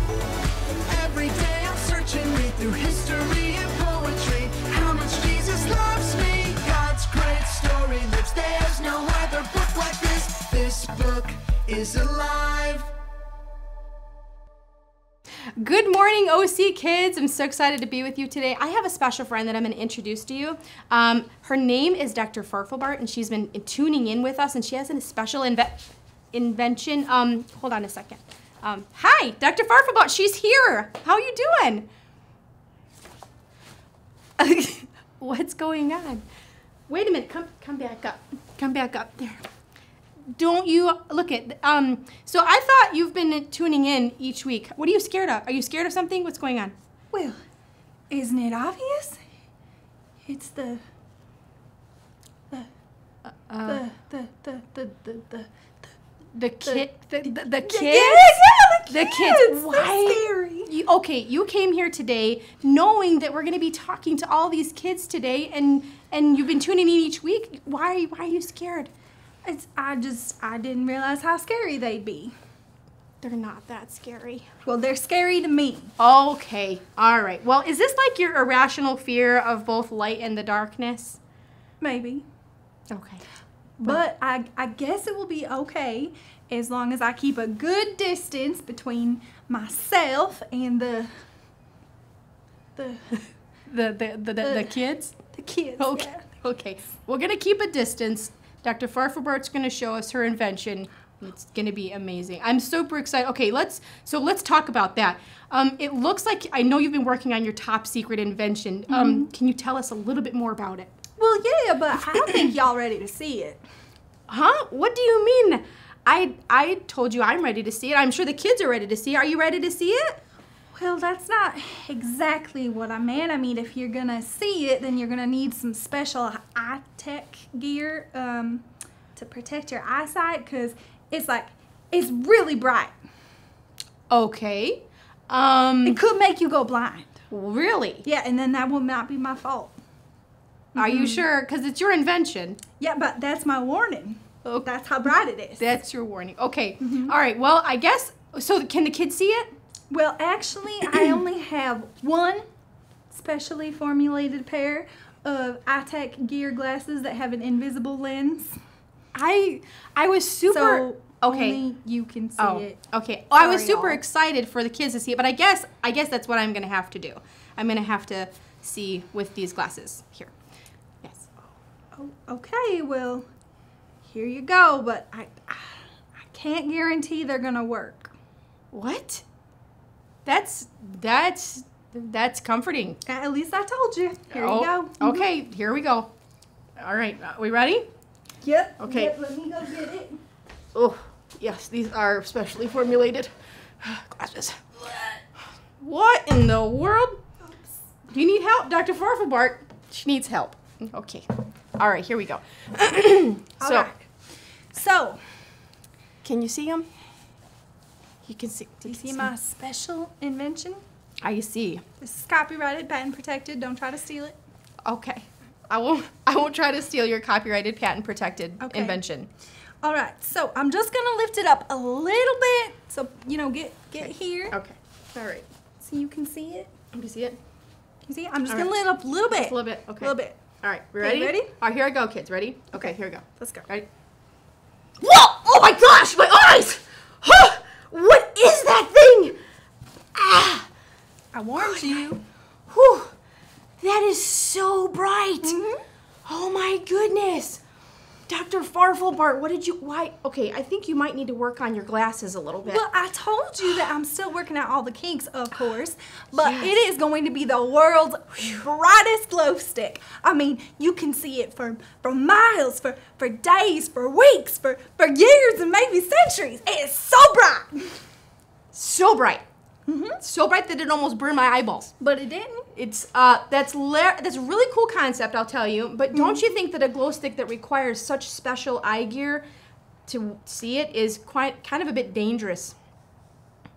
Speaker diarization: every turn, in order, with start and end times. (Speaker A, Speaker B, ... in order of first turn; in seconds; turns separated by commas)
Speaker A: 0.8-12.9, Speaker B: 15.6-31.9, Speaker B: 34.4-36.2, Speaker B: 36.9-39.4, Speaker B: 40.3-46.8, Speaker C: 47.1-47.4, Speaker C: 48.1-49.2, Speaker C: 50.2-50.8, Speaker B: 53.2-53.9, Speaker C: 53.6-55.9, Speaker B: 56.3-68.9, Speaker C: 56.6-60.7, Speaker C: 69.4-72.3, Speaker B: 73.2-74.5, Speaker C: 74.6-75.9, Speaker B: 76.0-81.2, Speaker C: 81.8-82.2, Speaker B: 82.9-83.2, Speaker C: 83.8-91.1, Speaker C: 92.8-93.2, Speaker B: 93.7-95.2, Speaker C: 94.4-96.3, Speaker B: 95.8-111.0, Speaker C: 108.9-109.3, Speaker C: 111.2-113.6, Speaker B: 112.1-112.5, Speaker B: 114.3-120.2, Speaker C: 120.7-132.9, Speaker B: 134.1-136.0, Speaker C: 135.8-137.2, Speaker B: 137.3-138.0, Speaker C: 138.0-139.7, Speaker C: 140.7-141.3, Speaker B: 140.8-142.6, Speaker C: 142.8-145.7, Speaker B: 144.4-144.7, Speaker B: 145.6-149.6, Speaker C: 146.8-147.1, Speaker C: 149.9-152.4, Speaker B: 150.8-151.1, Speaker C: 153.1-158.6, Speaker B: 159.1-161.6, Speaker C: 160.4-162.8, Speaker B: 162.4-170.3, Speaker C: 163.3-164.0, Speaker B: 171.0-171.5, Speaker C: 171.9-173.3, Speaker C: 174.0-178.1, Speaker B: 178.7-179.2, Speaker B: 180.2-183.0, Speaker C: 183.1-185.3, Speaker B: 184.3-186.1, Speaker B: 186.8-187.9, Speaker C: 188.4-190.2, Speaker B: 188.8-189.2, Speaker B: 190.7-194.6, Speaker B: 195.8-197.2, Speaker C: 197.4-197.8, Speaker B: 198.1-203.9, Speaker C: 203.6-204.1, Speaker C: 204.7-205.2, Speaker B: 206.2-206.9, Speaker B: 208.2-209.3, Speaker C: 208.8-210.8, Speaker B: 211.2-211.8, Speaker C: 212.0-214.4, Speaker B: 214.8-219.3, Speaker C: 218.6-219.0, Speaker C: 219.8-224.6, Speaker B: 223.9-225.5, Speaker C: 225.8-226.7, Speaker B: 226.9-227.4, Speaker C: 228.1-231.5, Speaker B: 228.4-233.9, Speaker C: 232.8-233.7, Speaker B: 235.0-239.4, Speaker B: 240.1-240.7, Speaker C: 241.3-242.2, Speaker B: 241.6-242.2, Speaker B: 242.7-243.1, Speaker B: 243.8-245.6, Speaker C: 245.4-245.8, Speaker B: 246.2-247.6, Speaker B: 248.3-252.9, Speaker C: 252.6-268.0, Speaker B: 253.6-253.9, Speaker B: 256.3-256.7, Speaker B: 268.7-269.4, Speaker C: 269.9-270.2, Speaker B: 270.2-271.9, Speaker C: 272.0-272.7, Speaker B: 272.7-279.4, Speaker C: 276.1-276.4, Speaker B: 280.1-282.8